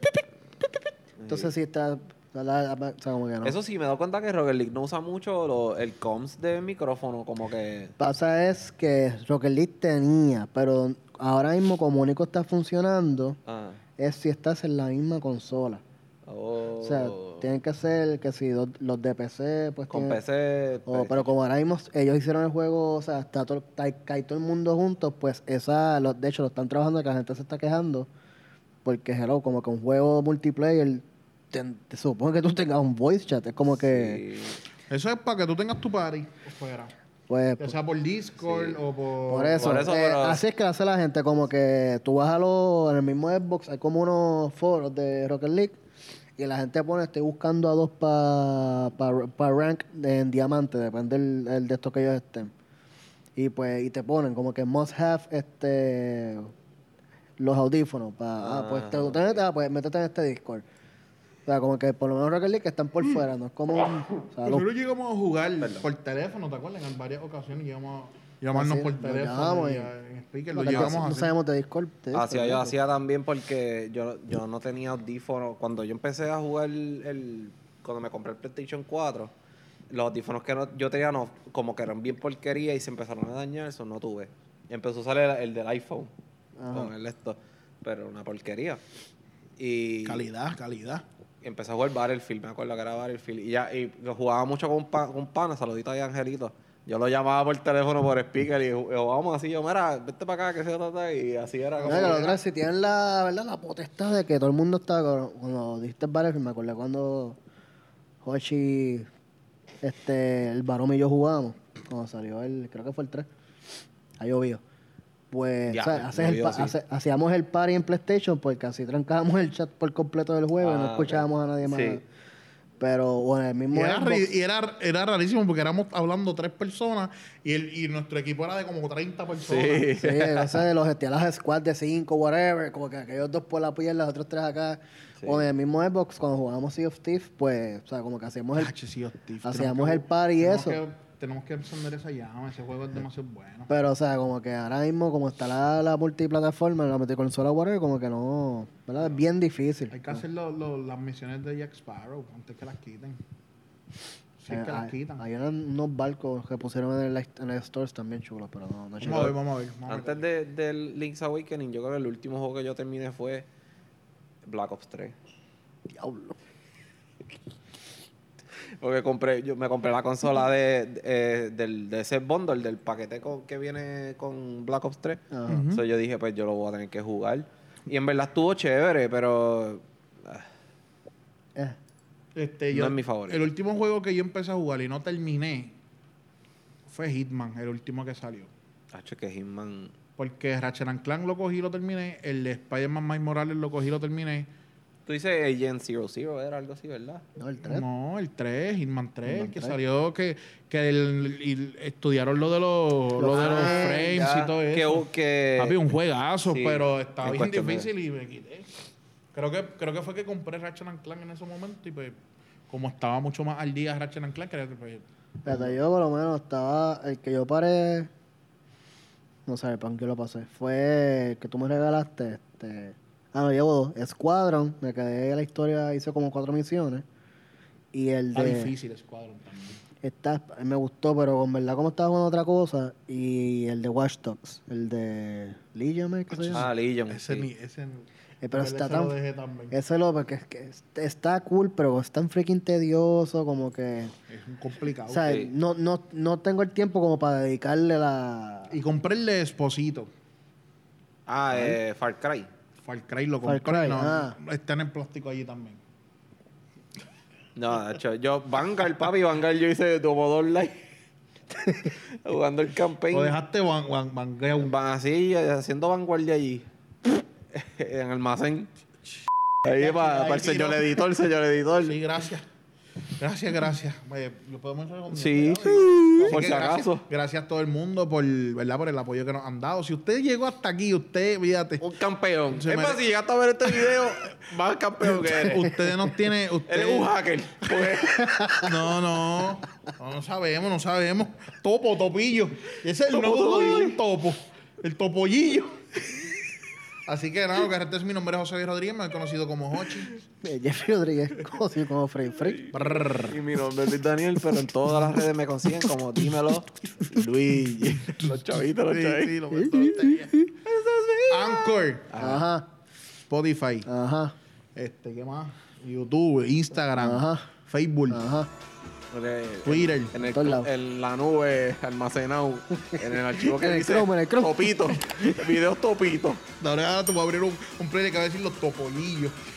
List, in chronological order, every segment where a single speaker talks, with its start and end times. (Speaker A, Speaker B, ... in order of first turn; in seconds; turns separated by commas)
Speaker A: 1.2-1.5, Speaker B: 1.3-3.6, Speaker A: 3.4-7.9, Speaker B: 8.0-13.4, Speaker A: 13.5-13.8, Speaker B: 14.0-15.8, Speaker A: 16.3-17.5, Speaker B: 16.8-20.2, Speaker A: 19.9-21.3, Speaker B: 20.9-28.1, Speaker B: 28.9-34.2, Speaker A: 33.9-34.6, Speaker C: 34.9-36.9, Speaker B: 37.3-37.8, Speaker C: 37.6-39.9, Speaker A: 38.4-38.8, Speaker B: 39.3-45.8, Speaker A: 39.6-40.4, Speaker B: 46.4-52.5, Speaker B: 53.4-56.5, Speaker B: 57.4-60.7, Speaker A: 58.4-59.4, Speaker B: 61.5-64.7, Speaker C: 64.5-71.4, Speaker B: 68.5-69.9, Speaker B: 70.5-72.8, Speaker A: 70.7-71.0, Speaker A: 72.1-79.3, Speaker A: 79.9-86.1, Speaker B: 86.6-86.9, Speaker A: 86.7-88.8, Speaker A: 89.6-90.2, Speaker C: 90.0-91.0, Speaker A: 91.4-102.3, Speaker C: 101.8-102.4, Speaker B: 101.8-107.4, Speaker B: 108.2-109.1, Speaker B: 109.8-113.3, Speaker B: 114.2-114.6, Speaker B: 115.3-122.0, Speaker A: 115.7-116.8, Speaker A: 120.6-122.0, Speaker B: 122.8-124.3, Speaker C: 123.7-129.9, Speaker A: 129.5-130.7, Speaker B: 129.9-138.7, Speaker A: 135.2-135.5, Speaker C: 138.6-143.7, Speaker B: 139.4-140.8, Speaker B: 143.7-150.2, Speaker C: 149.9-153.2, Speaker C: 154.4-155.2, Speaker B: 154.5-159.3, Speaker C: 159.0-160.3, Speaker A: 159.9-163.5, Speaker A: 164.4-165.2, Speaker B: 165.9-166.4, Speaker A: 168.8-180.5, Speaker B: 175.3-175.6, Speaker C: 175.5-175.8, Speaker C: 182.4-185.8, Speaker A: 182.7-183.5, Speaker C: 186.9-188.5, Speaker A: 188.9-189.9, Speaker C: 190.2-194.5, Speaker A: 195.1-197.2, Speaker B: 197.4-197.8, Speaker C: 197.6-208.7, Speaker B: 199.3-199.8, Speaker B: 203.2-204.2, Speaker A: 203.3-205.8, Speaker A: 206.5-207.9, Speaker C: 209.3-212.2, Speaker C: 212.7-215.8, Speaker B: 215.4-218.1, Speaker B: 219.5-227.1, Speaker B: 227.9-228.7, Speaker C: 228.3-229.8, Speaker B: 230.0-236.7, Speaker C: 236.3-239.8, Speaker A: 236.5-237.5, Speaker B: 238.4-239.2, Speaker B: 239.7-244.1, Speaker C: 244.3-245.4, Speaker B: 245.1-248.7, Speaker A: 245.2-245.5, Speaker C: 248.7-250.1, Speaker A: 251.3-252.5, Speaker C: 252.8-255.8, Speaker B: 253.4-254.4, Speaker A: 257.6-260.8, Speaker A: 261.8-263.4, Speaker C: 263.1-264.8, Speaker A: 264.6-268.7, Speaker A: 269.6-272.0, Speaker C: 269.7-271.0, Speaker C: 271.8-272.5, Speaker C: 273.2-281.9, Speaker A: 275.1-277.1, Speaker A: 281.8-285.7, Speaker C: 282.5-283.0, Speaker C: 283.7-284.0, Speaker C: 285.1-287.1, Speaker A: 286.7-288.5, Speaker B: 288.2-288.7, Speaker C: 288.6-296.2, Speaker A: 293.1-294.0, Speaker C: 297.1-300.2, Speaker B: 300.4-302.6, Speaker A: 302.4-309.4, Speaker C: 302.7-303.4, Speaker C: 308.0-310.4, Speaker B: 309.5-310.5, Speaker A: 310.6-312.4, Speaker C: 311.3-312.2, Speaker B: 312.2-312.7, Speaker C: 313.3-313.9, Speaker B: 313.9-314.4, Speaker C: 314.8-318.2, Speaker B: 317.0-317.5, Speaker B: 318.1-318.5, Speaker A: 319.1-326.4, Speaker C: 319.6-320.1, Speaker B: 320.3-320.7, Speaker B: 322.9-325.2, Speaker C: 326.6-329.4